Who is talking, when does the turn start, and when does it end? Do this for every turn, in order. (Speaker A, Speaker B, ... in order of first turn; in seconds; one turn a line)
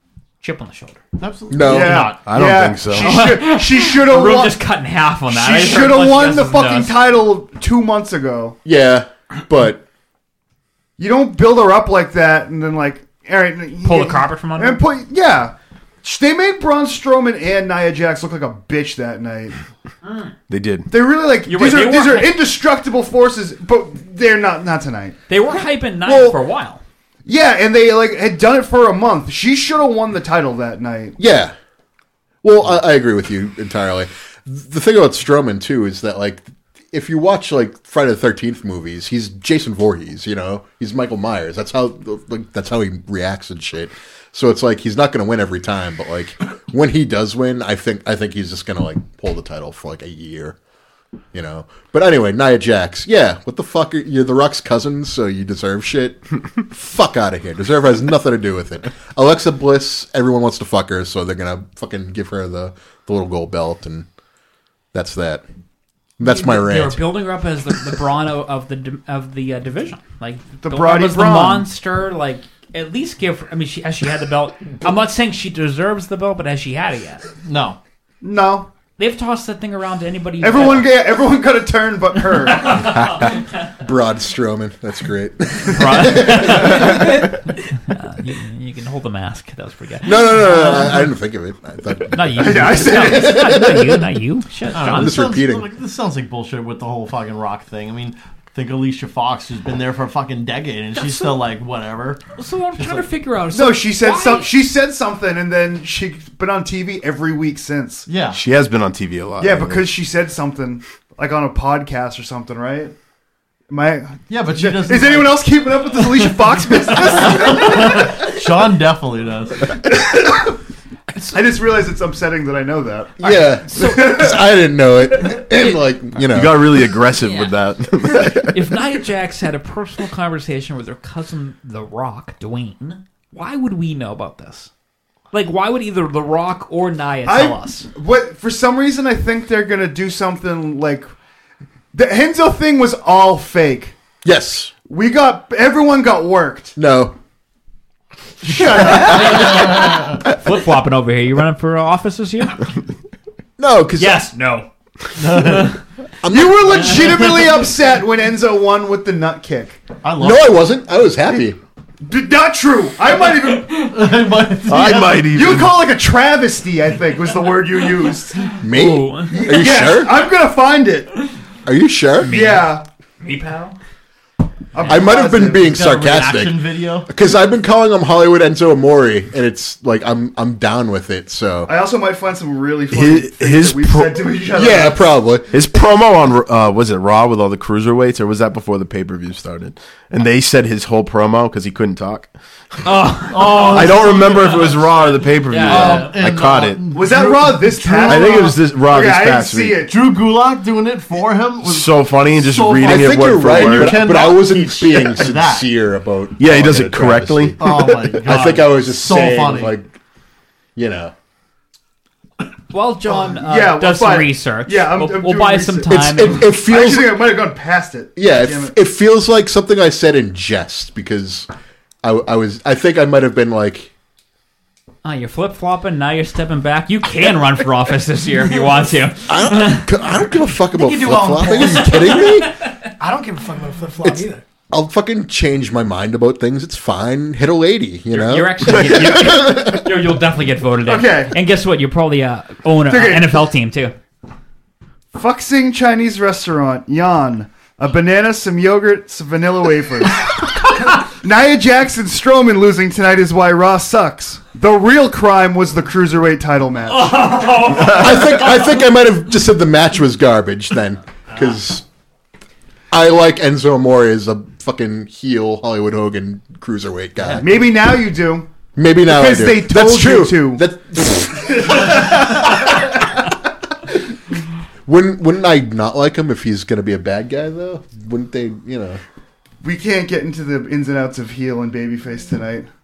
Speaker A: 0.4-1.0
Speaker B: 1.2-2.1
Speaker C: 1.5-2.1
Speaker D: 1.6-4.6
Speaker E: 2.1-3.1
Speaker A: 3.0-7.0
Speaker D: 5.3-8.6
Speaker C: 8.6-9.8
Speaker D: 11.0-19.6
Speaker A: 13.8-14.8
Speaker A: 20.0-20.3
Speaker E: 20.5-20.9
Speaker D: 20.9-25.2
Speaker A: 21.4-22.4
Speaker A: 25.3-26.8
Speaker C: 26.1-26.4
Speaker D: 27.2-31.1
Speaker C: 31.2-31.5
Speaker C: 32.4-50.6
Speaker C: 51.3-64.1
Speaker C: 64.9-65.4
Speaker C: 66.2-67.1
Speaker A: 66.2-77.2
Speaker D: 70.6-71.7
Speaker B: 77.4-77.8
Speaker D: 78.2-78.7
Speaker A: 79.0-80.9
Speaker D: 80.4-83.0
Speaker A: 82.5-83.4
Speaker C: 83.8-87.1
Speaker A: 85.7-87.3
Speaker A: 87.8-90.9
Speaker C: 90.0-94.0
Speaker A: 92.1-95.2
Speaker D: 92.3-93.5
Speaker B: 94.7-102.2
Speaker C: 94.8-95.7
Speaker A: 100.9-101.4
Speaker A: 102.3-104.5
Speaker B: 102.8-103.0
Speaker D: 103.5-108.1
Speaker B: 108.1-108.4
Speaker E: 108.3-109.9
Speaker D: 109.4-112.9
Speaker D: 113.7-118.3
Speaker B: 114.3-115.5
Speaker B: 117.4-119.8
Speaker D: 119.8-120.5
Speaker A: 121.1-121.4
Speaker D: 121.3-124.3
Speaker C: 123.2-126.7
Speaker A: 123.2-124.3
Speaker E: 126.3-128.5
Speaker A: 127.1-127.5
Speaker A: 128.4-134.7
Speaker A: 135.3-137.9
Speaker D: 137.2-141.1
Speaker D: 141.9-143.9
Speaker C: 144.2-144.7
Speaker D: 144.9-146.8
Speaker C: 146.8-147.1
Speaker D: 148.4-150.0
Speaker A: 149.1-149.4
Speaker A: 150.3-152.7
Speaker C: 153.6-154.3
Speaker A: 154.0-154.7
Speaker B: 155.2-155.7
Speaker A: 155.2-155.8
Speaker C: 156.2-157.2
Speaker D: 156.3-159.8
Speaker B: 160.0-160.7
Speaker C: 160.2-161.6
Speaker D: 162.0-164.2
Speaker B: 163.9-165.3
Speaker E: 164.7-165.8
Speaker D: 165.2-168.6
Speaker C: 168.6-170.2
Speaker A: 168.6-169.5
Speaker D: 169.3-171.3
Speaker C: 171.7-172.5
Speaker A: 172.2-173.8
Speaker D: 172.2-172.8
Speaker D: 174.7-175.7
Speaker C: 174.8-181.7
Speaker B: 175.6-177.1
Speaker D: 181.7-185.1
Speaker E: 182.9-184.2
Speaker C: 184.5-185.5
Speaker E: 185.5-192.3
Speaker A: 192.8-196.2
Speaker B: 193.3-195.1
Speaker E: 193.6-196.8
Speaker B: 195.6-198.1
Speaker D: 196.9-199.9
Speaker E: 197.9-199.8
Speaker B: 199.8-205.7
Speaker E: 201.6-204.1
Speaker C: 202.8-209.9
Speaker E: 206.4-208.0
Speaker B: 207.6-209.8
Speaker A: 208.3-208.5
Speaker C: 210.8-211.1
Speaker A: 212.7-216.5
Speaker D: 213.1-218.7
Speaker C: 215.9-217.3
Speaker C: 218.2-221.5
Speaker C: 222.0-223.9
Speaker A: 225.0-229.9
Speaker C: 229.3-232.6
Speaker F: 230.7-232.3
Speaker A: 231.6-232.5
Speaker F: 233.0-234.4
Speaker C: 234.0-239.8
Speaker A: 238.1-243.9
Speaker D: 240.9-241.3
Speaker D: 242.9-243.5
Speaker D: 245.1-257.5
Speaker A: 256.9-258.6
Speaker C: 257.8-261.8
Speaker C: 262.9-267.7
Speaker D: 267.4-268.5
Speaker C: 268.8-272.9
Speaker D: 269.0-270.7
Speaker C: 274.9-279.0
Speaker D: 279.6-282.7